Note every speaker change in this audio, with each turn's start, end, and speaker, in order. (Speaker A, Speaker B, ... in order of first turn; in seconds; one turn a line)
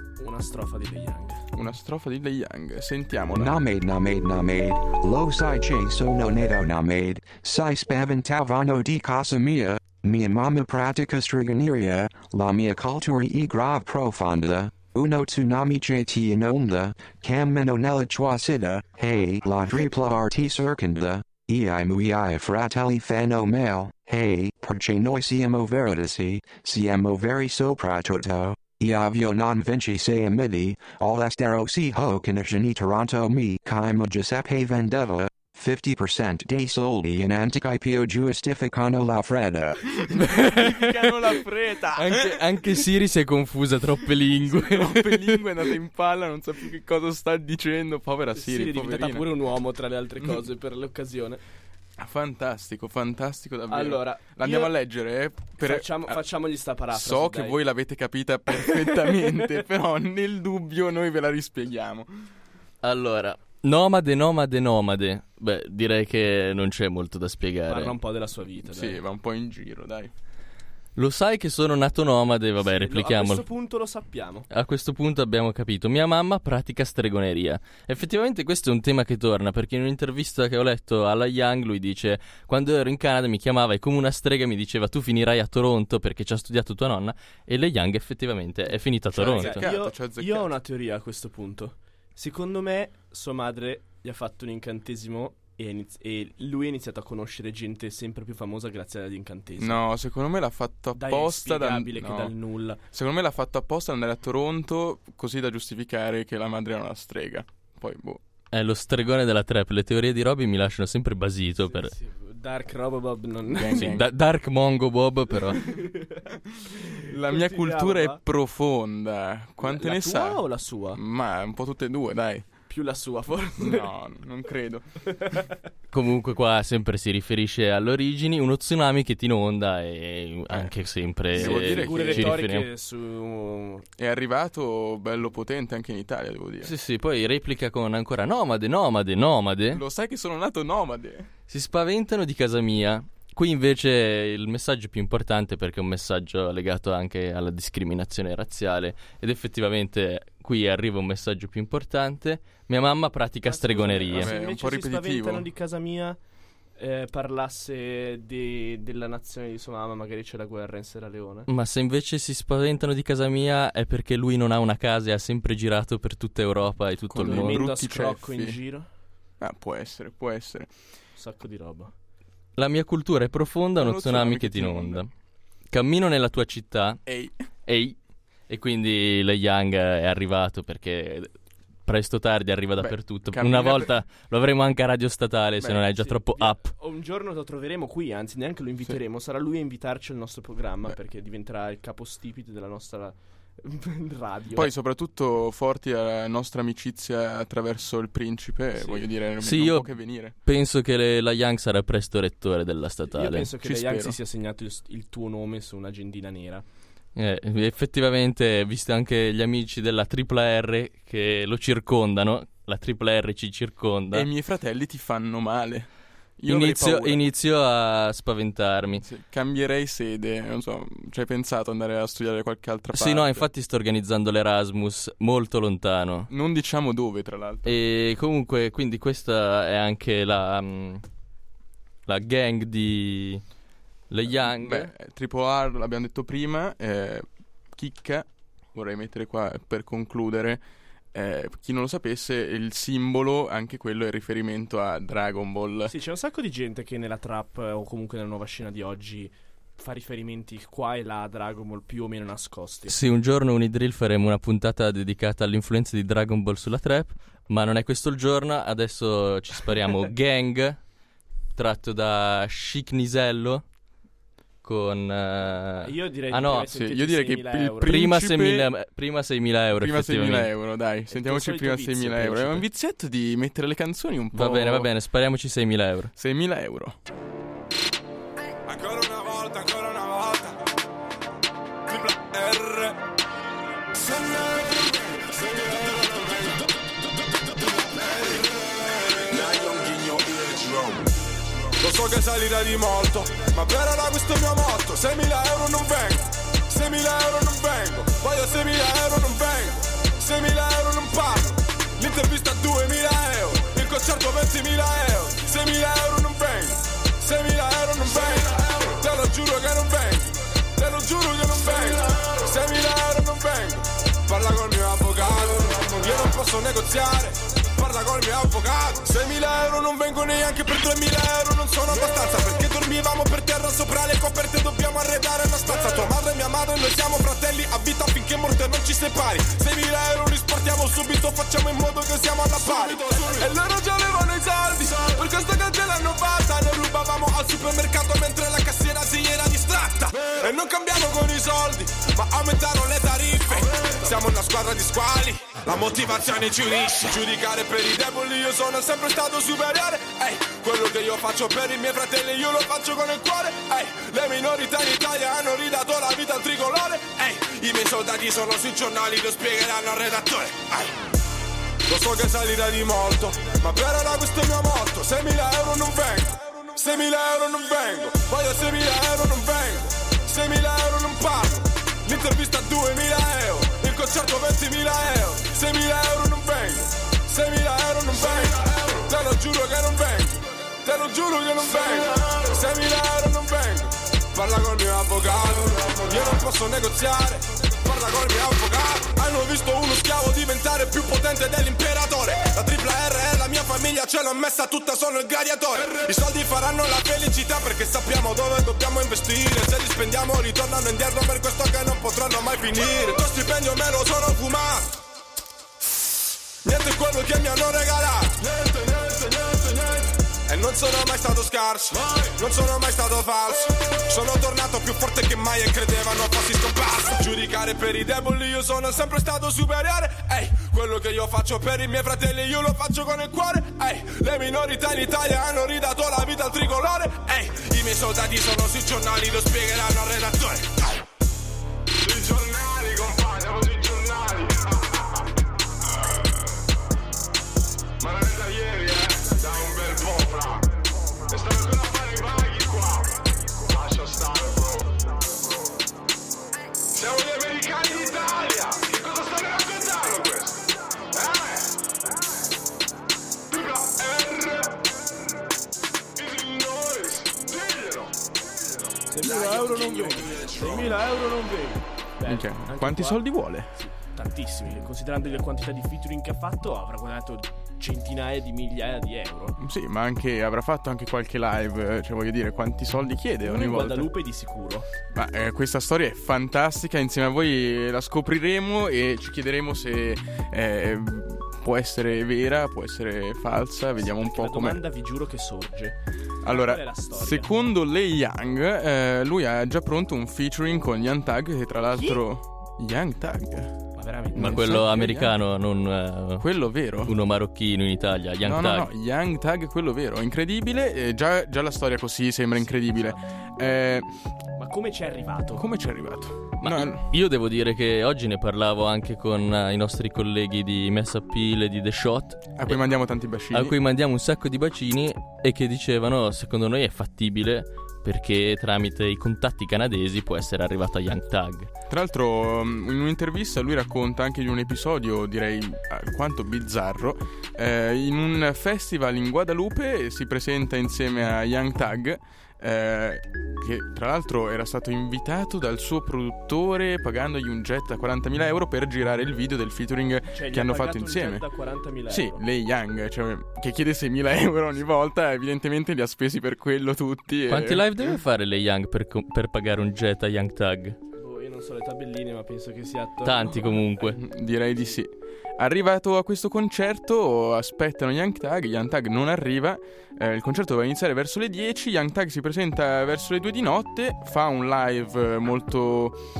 Speaker A: 0.2-1.4
Speaker B: 1.5-3.6
Speaker C: 3.3-39.8
Speaker B: 40.1-42.4
Speaker D: 40.2-41.3
Speaker D: 41.9-45.7
Speaker B: 44.5-49.3
Speaker A: 48.4-51.4
Speaker B: 52.0-56.2
Speaker A: 53.7-54.7
Speaker A: 55.6-57.6
Speaker B: 56.9-62.1
Speaker A: 58.5-59.4
Speaker D: 62.8-68.0
Speaker A: 67.7-69.0
Speaker B: 68.6-70.1
Speaker D: 71.0-73.5
Speaker A: 72.6-74.5
Speaker D: 74.5-89.7
Speaker B: 89.1-90.5
Speaker A: 89.2-99.8
Speaker B: 99.6-102.3
Speaker A: 100.9-102.8
Speaker B: 102.9-108.2
Speaker D: 108.5-111.9
Speaker A: 111.7-113.9
Speaker B: 113.5-114.1
Speaker D: 113.7-115.7
Speaker A: 115.6-116.2
Speaker B: 117.1-120.4
Speaker A: 117.3-118.2
Speaker A: 119.6-121.0
Speaker B: 120.9-122.5
Speaker A: 122.7-123.9
Speaker B: 123.6-124.9
Speaker A: 125.1-125.5
Speaker D: 125.9-132.7
Speaker B: 131.3-132.4
Speaker A: 131.4-133.8
Speaker B: 134.0-136.7
Speaker D: 136.6-139.8
Speaker B: 139.7-141.3
Speaker D: 141.5-154.3
Speaker A: 153.4-156.2
Speaker B: 154.1-155.5
Speaker A: 156.8-161.5
Speaker D: 161.5-167.7
Speaker B: 167.1-168.6
Speaker A: 167.2-168.9
Speaker B: 169.4-170.7
Speaker A: 171.2-171.9
Speaker D: 172.6-175.1
Speaker B: 173.8-175.0
Speaker D: 175.7-177.0
Speaker B: 177.1-177.4
Speaker D: 177.7-178.0
Speaker D: 178.5-181.3
Speaker D: 181.9-186.7
Speaker B: 182.8-184.0
Speaker A: 185.8-194.7
Speaker B: 194.5-200.3
Speaker A: 198.8-199.1
Speaker D: 199.4-203.5
Speaker A: 203.1-206.7
Speaker B: 203.6-204.2
Speaker D: 207.2-214.3
Speaker B: 214.1-217.2
Speaker D: 216.5-219.1
Speaker B: 218.9-223.5
Speaker D: 222.9-226.3
Speaker B: 226.3-227.8
Speaker D: 227.7-231.1
Speaker D: 232.1-233.4
Speaker D: 234.1-234.9
Speaker B: 234.3-245.9
Speaker A: 245.9-253.0
Speaker D: 252.9-260.8
Speaker D: 261.6-263.6
Speaker D: 264.6-266.7
Speaker A: 265.8-268.0
Speaker B: 266.7-268.7
Speaker D: 267.8-270.5
Speaker B: 269.7-274.9
Speaker A: 271.1-272.7
Speaker D: 274.3-276.1
Speaker B: 276.2-277.0
Speaker E: 278.6-280.6
Speaker E: 281.9-283.0
Speaker E: 283.9-286.8
Speaker E: 287.9-291.2
Speaker E: 291.8-361.1
Speaker E: 361.9-405.0
Speaker E: 406.6-430.9
Speaker E: 432.0-435.2
Speaker E: 438.0-440.8
Speaker E: 441.3-445.4
Speaker E: 446.9-451.7
Speaker E: 453.5-454.9
Speaker E: 456.2-458.1
Speaker A: 459.1-463.2
Speaker E: 459.2-461.0
Speaker B: 462.3-463.7
Speaker A: 463.7-469.6
Speaker B: 469.6-474.1
Speaker A: 473.4-474.9
Speaker B: 475.1-484.8
Speaker A: 484.0-487.5
Speaker B: 486.4-493.8
Speaker A: 491.9-492.2
Speaker A: 494.0-494.9
Speaker B: 494.3-495.3
Speaker D: 494.4-496.5
Speaker B: 496.4-497.1
Speaker D: 497.1-498.9
Speaker B: 498.4-504.1
Speaker A: 502.5-503.2
Speaker A: 504.6-505.7
Speaker B: 505.5-507.1
Speaker D: 506.6-512.9
Speaker B: 512.5-513.8
Speaker D: 513.5-521.7
Speaker B: 521.9-541.5
Speaker A: 540.3-542.4
Speaker B: 542.1-548.2
Speaker D: 547.5-551.0
Speaker A: 551.2-553.9
Speaker D: 553.2-554.2
Speaker B: 554.1-566.2